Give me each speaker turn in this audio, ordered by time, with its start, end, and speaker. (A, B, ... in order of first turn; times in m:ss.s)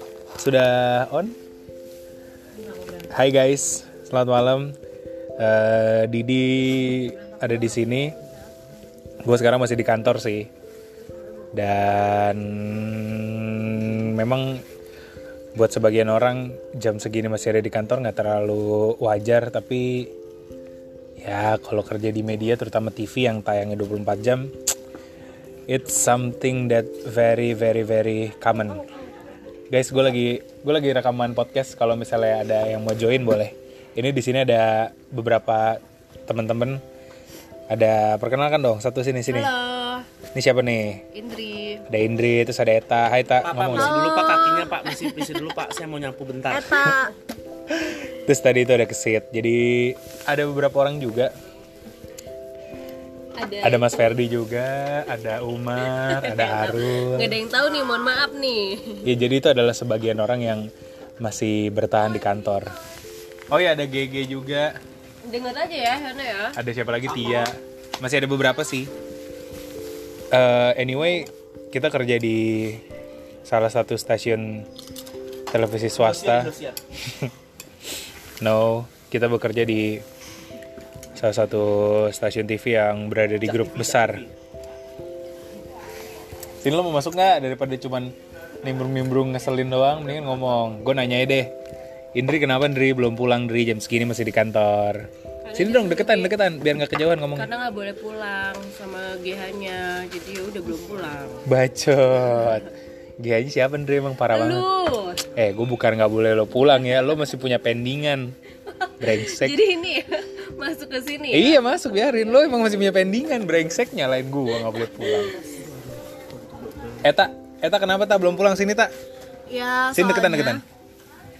0:00.4-0:01.3 A
0:03.1-0:04.8 A
0:05.4-0:08.1 A
0:09.2-0:10.5 A
0:11.5-0:14.6 A
0:15.5-0:20.1 A
0:21.2-0:24.5 A
0:25.7-0:28.8 A
0:29.7-0:36.8 A
0:37.7-0:39.5 A
0:39.4-0:40.1 B
0:40.3-0:41.0 A
0:41.1-0:41.8 B
0:41.9-0:44.0 A
0:43.4-0:46.9 C
0:43.8-0:44.7 D
0:46.5-0:47.1 D
0:47.8-0:51.3 A
0:53.4-0:53.7 B
0:53.6-0:57.4 A
0:56.1-0:56.8 B
0:57.3-0:59.0 B
0:59.0-1:00.7 A
1:01.2-1:02.7 A
1:03.5-1:04.8 A
1:05.2-1:06.6 B
1:06.6-1:08.9 A
1:10.3-1:12.8 A
1:13.4-1:14.7 A
1:15.5-1:16.5 A
1:15.9-1:16.8 C
1:18.4-1:20.0 A
1:21.2-1:24.2 A
1:23.4-1:24.3 C
1:26.6-1:31.5 A
1:32.1-1:37.5 A
1:35.4-1:36.4 B
1:37.4-1:41.4 B
1:41.4-1:44.7 A
1:44.4-1:45.2 B
1:45.3-1:48.4 A
1:49.0-1:49.6 A
1:49.2-1:51.6 B
1:51.3-1:55.4 A
1:56.4-1:57.0 C
1:57.0-1:58.9 A
1:59.5-2:00.6 D
1:59.9-2:00.6 A